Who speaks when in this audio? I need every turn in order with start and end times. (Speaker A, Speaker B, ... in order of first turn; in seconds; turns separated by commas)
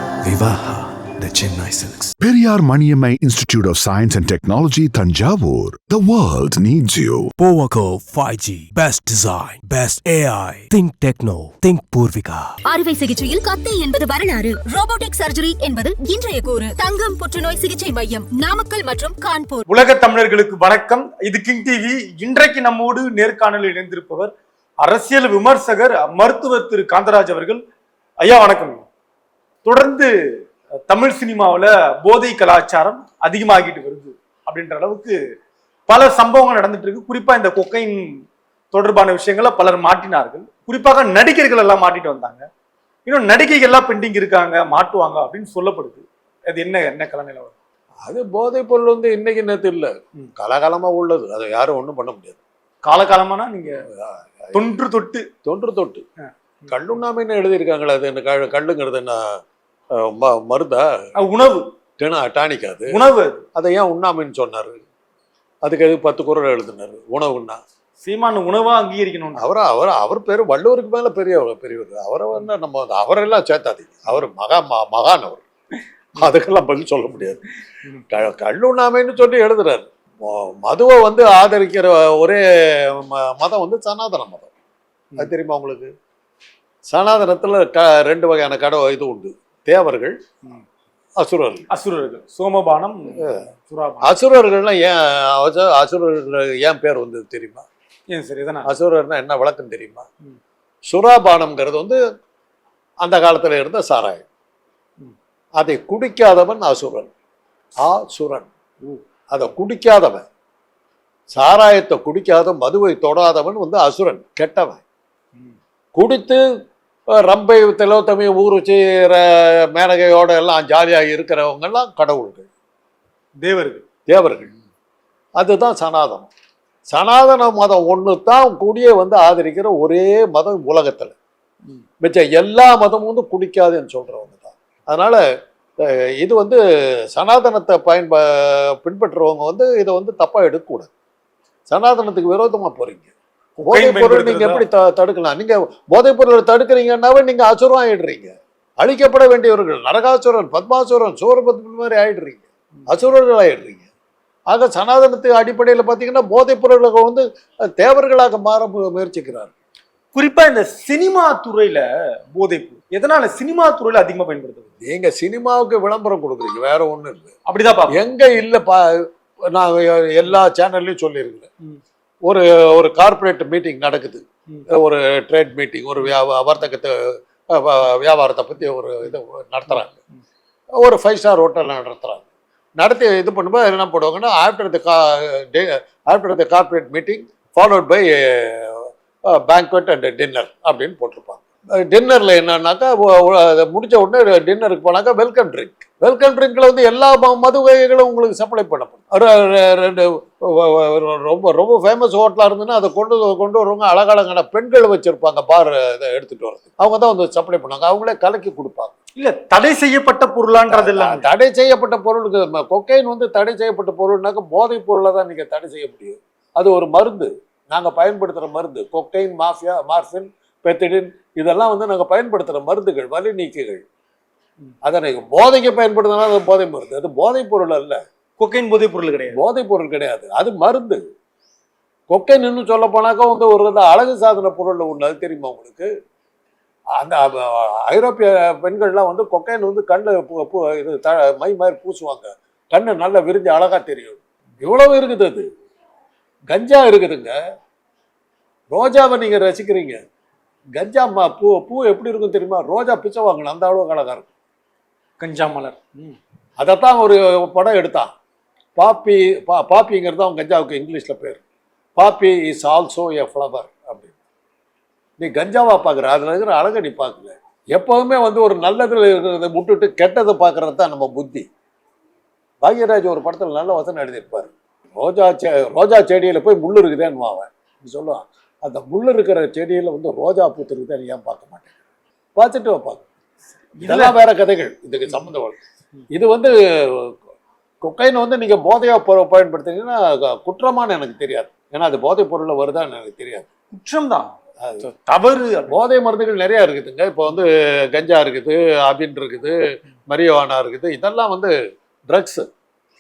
Speaker A: 0.2-2.1, Speaker B: 2.2-7.3, Speaker A: 7.4-12.6, Speaker C: 12.7-19.7, Speaker D: 19.7-27.6, Speaker D: 28.2-28.9, Speaker D: 29.6-35.2, Speaker D: 35.9-42.5, Speaker D: 43.1-47.5, Speaker E: 48.1-52.4, Speaker D: 52.8-53.8, Speaker E: 54.0-54.7, Speaker D: 54.5-55.3, Speaker E: 55.5-56.0, Speaker E: 56.7-59.4, Speaker E: 60.0-61.1, Speaker D: 61.2-61.7, Speaker E: 62.0-63.0, Speaker D: 62.9-63.4, Speaker E: 63.5-64.8, Speaker E: 65.6-67.6, Speaker D: 68.0-69.4, Speaker E: 69.4-75.4, Speaker E: 76.2-77.4, Speaker E: 78.1-84.5, Speaker E: 85.2-85.9, Speaker E: 86.9-90.2, Speaker E: 91.2-91.7, Speaker D: 91.7-94.1, Speaker E: 93.2-93.4, Speaker E: 94.0-97.6, Speaker D: 98.1-98.7, Speaker E: 98.7-100.0, Speaker E: 100.9-102.0, Speaker E: 103.0-104.2, Speaker E: 105.6-107.1, Speaker E: 107.8-108.5, Speaker E: 109.3-110.2, Speaker E: 111.3-114.8, Speaker E: 115.9-116.4, Speaker E: 117.1-122.5, Speaker D: 123.4-123.8, Speaker E: 124.1-124.5, Speaker E: 125.4-126.3, Speaker E: 126.9-131.2, Speaker E: 132.0-135.2, Speaker E: 135.8-136.6, Speaker E: 137.1-140.9, Speaker E: 141.7-153.9, Speaker D: 143.7-144.7, Speaker E: 154.5-157.2, Speaker E: 157.8-159.5, Speaker D: 160.1-164.7, Speaker E: 164.8-167.3, Speaker D: 167.5-168.1, Speaker E: 167.9-171.5, Speaker E: 172.3-180.0, Speaker E: 180.8-182.2, Speaker E: 182.8-208.9, Speaker D: 209.2-211.3, Speaker E: 210.6-223.8, Speaker E: 224.8-228.0, Speaker D: 228.4-229.4, Speaker E: 229.3-231.0, Speaker E: 232.1-235.9, Speaker E: 237.0-245.5, Speaker E: 246.5-247.4, Speaker E: 248.7-250.0, Speaker E: 250.8-254.3, Speaker D: 255.2-256.2, Speaker E: 256.6-258.1, Speaker E: 258.8-261.4, Speaker E: 262.0-264.1, Speaker E: 265.2-271.5, Speaker E: 272.6-281.7, Speaker E: 282.4-283.0, Speaker D: 283.8-284.2, Speaker E: 283.8-285.6, Speaker E: 286.1-287.2, Speaker E: 287.8-293.5, Speaker D: 293.7-295.8, Speaker E: 295.7-299.6, Speaker E: 300.1-301.5, Speaker E: 302.1-302.5